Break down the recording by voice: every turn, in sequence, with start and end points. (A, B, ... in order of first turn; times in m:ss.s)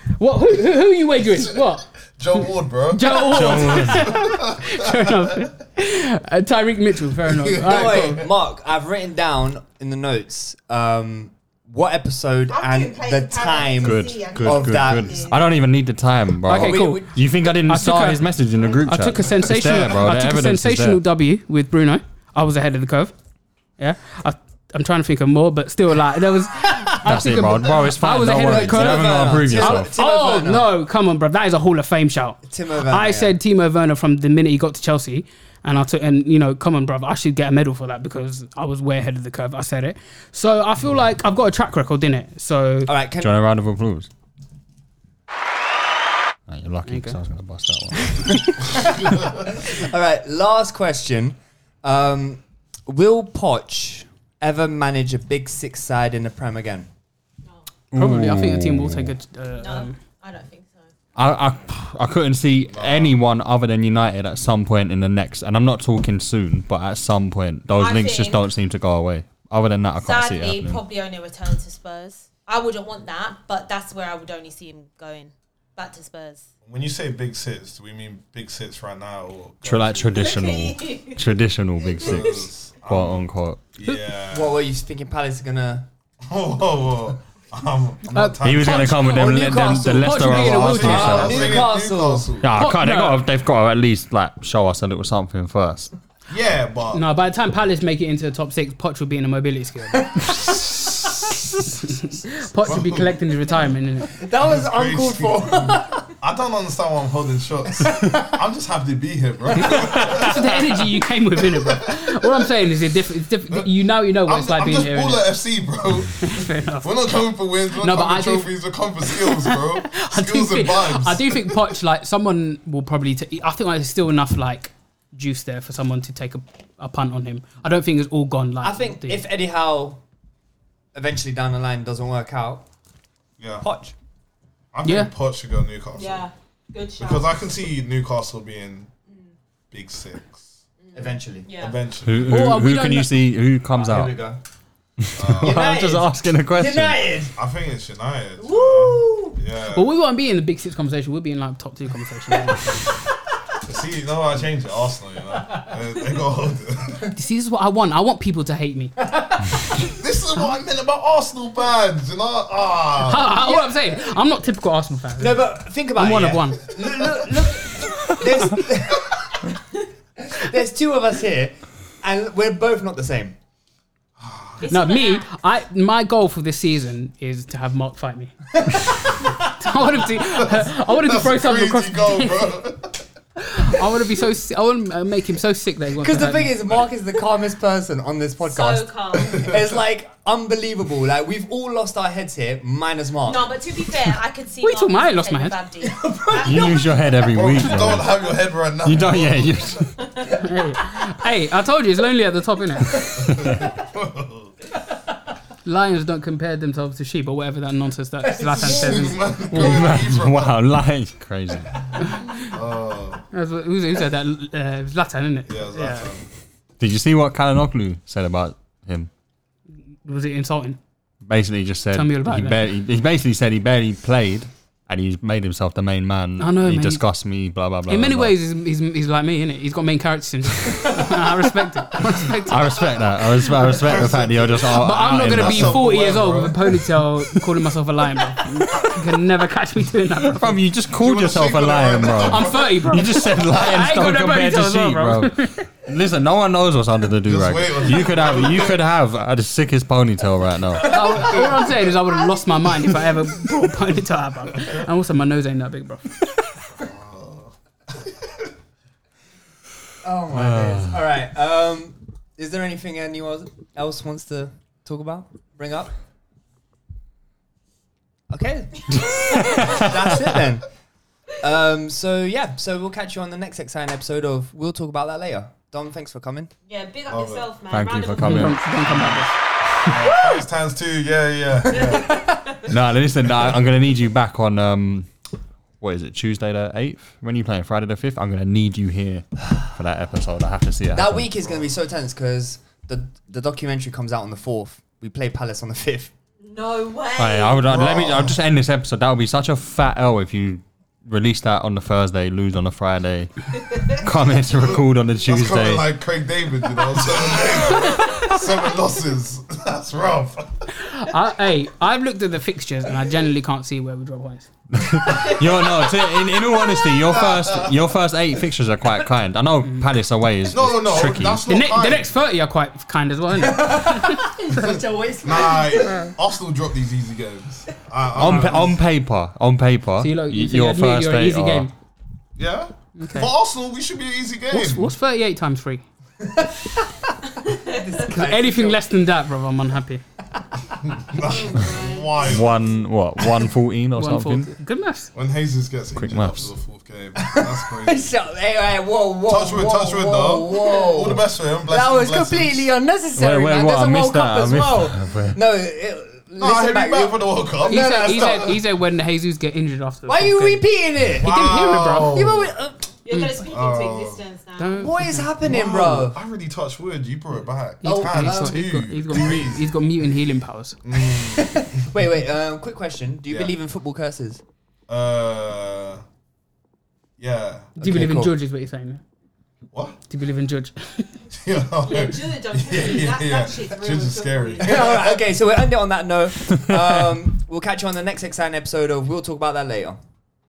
0:00.2-0:08.2 A
0:02.2-0:05.5 B
0:03.2-0:04.1 C
0:07.4-0:15.2 D
0:12.5-0:15.5 E
0:13.8-0:21.0 C
0:16.5-0:17.3 D
0:16.5-0:18.2 A
0:18.8-0:23.1 A
0:19.5-0:19.9 B
0:23.8-0:42.9 A
0:27.0-0:29.9 C
0:28.3-0:30.7 D
0:32.4-0:33.4 D
0:42.9-0:43.3 D
0:43.2-0:44.1 C
0:46.5-0:48.6 C
0:46.8-0:47.2 A
0:47.9-0:48.7 A
0:48.7-0:56.9 D
0:57.9-0:59.1 C
0:57.9-1:00.0 A
0:59.6-1:00.9 E
1:01.2-1:10.8 C
1:02.7-1:03.2 B
1:07.8-1:08.4 E
1:10.0-1:16.5 E
1:16.6-1:20.3 B
1:19.6-1:23.6 C
1:20.2-1:21.2 E
1:22.0-1:22.4 E
1:22.0-1:24.6 B
1:24.3-1:25.9 D
1:26.2-1:29.0 B
1:28.1-1:31.4 A
1:28.4-1:31.6 C
1:28.8-1:32.3 D
1:30.3-1:32.5 B
1:32.4-1:35.9 C
1:32.5-1:33.2 A
1:36.3-1:37.0 B
1:36.9-1:40.1 A
1:39.9-1:41.1 D
1:41.8-1:44.2 A
1:42.6-1:43.2 B
1:44.2-1:46.1 D
1:44.3-1:50.7 B
1:47.8-1:48.4 D
1:49.6-1:55.3 A
1:51.4-1:52.5 B
1:53.5-2:01.8 B
1:56.2-2:09.2 A
2:08.6-2:10.0 D
2:10.9-2:12.6 D
2:13.4-2:13.7 B
2:13.6-2:13.9 D
2:14.7-2:16.3 B
2:14.8-2:15.1 A
2:16.0-2:17.3 E
2:17.0-2:18.9 B
2:19.7-2:20.6 B
2:20.8-2:21.8 E
2:20.9-2:21.5 D
2:21.6-2:22.4 B
2:22.0-2:24.1 C
2:22.2-2:23.1 A
2:23.7-2:24.4 D
2:25.0-2:27.2 C
2:25.2-2:25.7 B
2:25.4-2:27.3 D
2:27.4-2:30.0 B
2:28.4-2:29.0 E
2:28.7-2:29.4 D
2:29.7-2:32.8 A
2:33.6-2:37.0 B
2:37.2-2:39.0 A
2:39.1-2:39.4 D
2:39.8-2:43.4 B
2:43.0-2:46.6 A
2:43.3-2:44.0 D
2:45.2-2:49.5 D
2:50.2-2:53.4 D
2:54.2-2:54.6 B
2:54.6-2:55.3 E
2:54.7-2:58.3 A
2:58.5-2:59.5 D
2:59.6-3:02.6 A
3:00.2-3:03.0 B
3:03.4-3:06.8 A
3:06.0-3:13.6 D
3:08.4-3:09.5 E
3:13.2-3:16.8 E
3:14.6-3:15.6 A
3:15.8-3:16.8 D
3:16.4-3:18.1 C
3:17.3-3:19.8 B
3:18.8-3:19.9 C
3:20.3-3:23.0 A
3:23.2-3:24.5 B
3:25.6-3:29.3 A
3:28.2-3:29.4 D
3:28.6-3:30.6 B
3:29.5-3:31.8 C
3:32.0-3:32.5 A
3:32.4-3:33.2 B
3:33.3-3:36.1 A
3:35.5-3:36.2 B
3:36.8-3:39.1 C
3:40.0-3:40.8 A
3:41.2-3:48.3 C
3:41.9-3:42.7 A
3:46.4-3:47.0 A
3:47.9-3:52.6 A
3:52.4-3:55.8 C
3:53.6-3:56.9 B
3:54.8-4:00.5 A
4:00.3-4:11.0 C
4:00.9-4:03.8 B
4:02.3-4:05.6 A
4:07.2-4:08.8 B
4:10.8-4:16.1 A
4:10.8-4:11.3 D
4:11.2-4:11.9 B
4:16.8-4:18.5 B
4:20.0-4:25.9 D
4:20.3-4:20.9 C
4:28.3-4:30.7 D
4:29.0-4:29.7 E
4:31.4-4:36.5 D
4:36.7-4:38.6 E
4:37.1-4:37.5 B
4:37.7-4:38.6 C
4:38.2-4:39.3 A
4:39.8-4:42.3 B
4:41.7-4:42.4 D
4:42.7-4:45.1 C
4:43.2-4:43.6 B
4:45.8-4:51.3 C
4:50.9-4:56.1 D
4:56.4-4:57.6 E
4:57.2-5:05.9 C
4:57.6-4:58.4 B
5:04.5-5:10.5 B
5:10.7-5:14.5 A
5:14.7-5:21.4 C
5:17.0-5:17.7 B
5:20.5-5:22.1 B
5:21.5-5:24.8 A
5:23.3-5:25.9 D
5:25.2-5:28.8 B
5:28.1-5:31.7 C
5:30.0-5:31.7 A
5:32.4-5:34.9 B
5:33.0-5:33.3 A
5:34.5-5:35.8 A
5:36.2-5:38.8 D
5:38.1-5:40.0 A
5:40.3-5:40.8 D
5:40.8-5:42.5 B
5:41.3-5:41.9 D
5:42.2-5:44.5 C
5:44.0-5:45.1 A
5:45.1-5:48.1 B
5:46.0-5:46.4 C
5:47.2-5:58.5 D
5:49.2-5:52.7 B
5:53.2-5:55.4 C
5:56.4-5:58.6 B
5:57.7-6:00.6 A
6:00.1-6:01.3 D
6:01.2-6:02.2 A
6:01.2-6:02.6 B
6:02.0-6:02.9 D
6:03.0-6:05.0 E
6:03.1-6:03.4 A
6:03.5-6:04.2 B
6:04.6-6:05.3 A
6:04.8-6:06.2 D
6:05.4-6:09.8 B
6:07.8-6:10.8 A
6:07.8-6:09.3 D
6:10.8-6:11.6 B
6:11.0-6:14.4 D
6:13.3-6:13.5 B
6:14.9-6:16.0 B
6:17.2-6:17.8 B
6:17.8-6:19.0 A
6:17.8-6:18.3 D
6:19.7-6:20.0 B
6:20.1-6:21.1 A
6:21.3-6:25.4 B
6:21.8-6:25.0 E
6:24.6-6:30.0 D